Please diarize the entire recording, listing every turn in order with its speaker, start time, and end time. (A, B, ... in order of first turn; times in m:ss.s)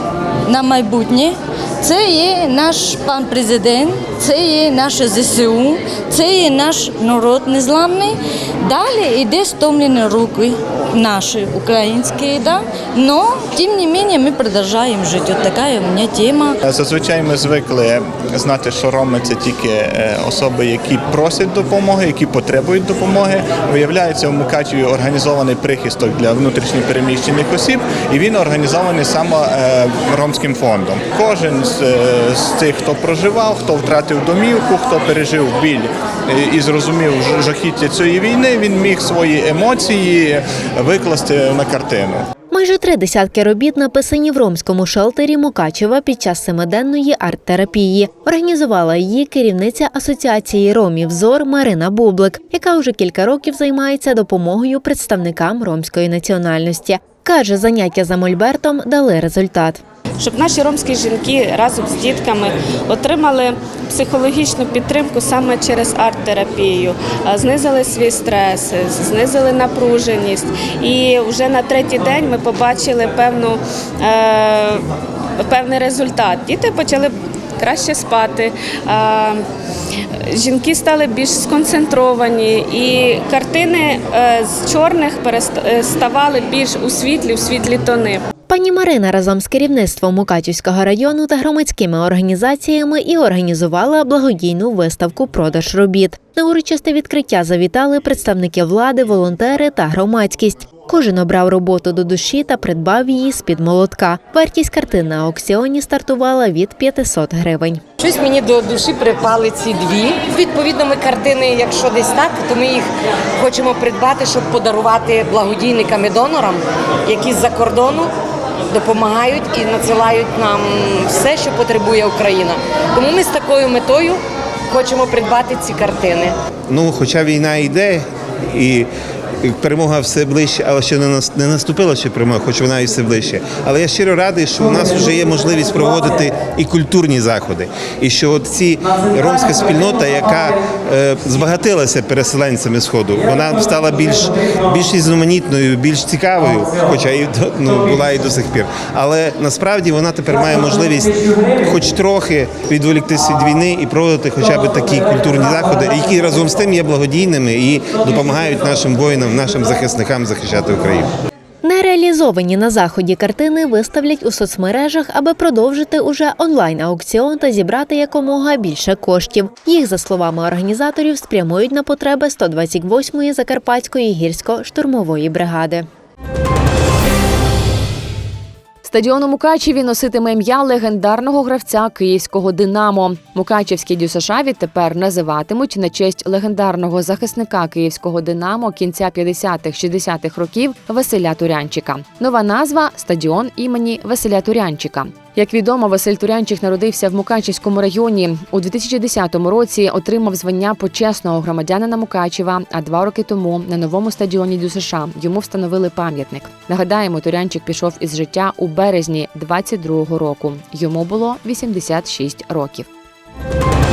0:00.4-0:16.5 A
0:16.6-0:42.2 B
0:42.5-0:59.8 C
1:00.2-1:14.8 D
1:15.4-1:19.4 D
1:20.3-1:28.2 D
1:28.5-1:47.8 C
1:48.0-1:52.8 E
1:53.5-1:56.6 E
1:57.1-1:58.0 E
1:58.8-2:04.2 E
2:04.7-2:06.3 E
2:06.7-2:08.9 F
2:09.4-2:41.1 F
2:41.6-2:55.9 C
2:58.8-3:32.9 G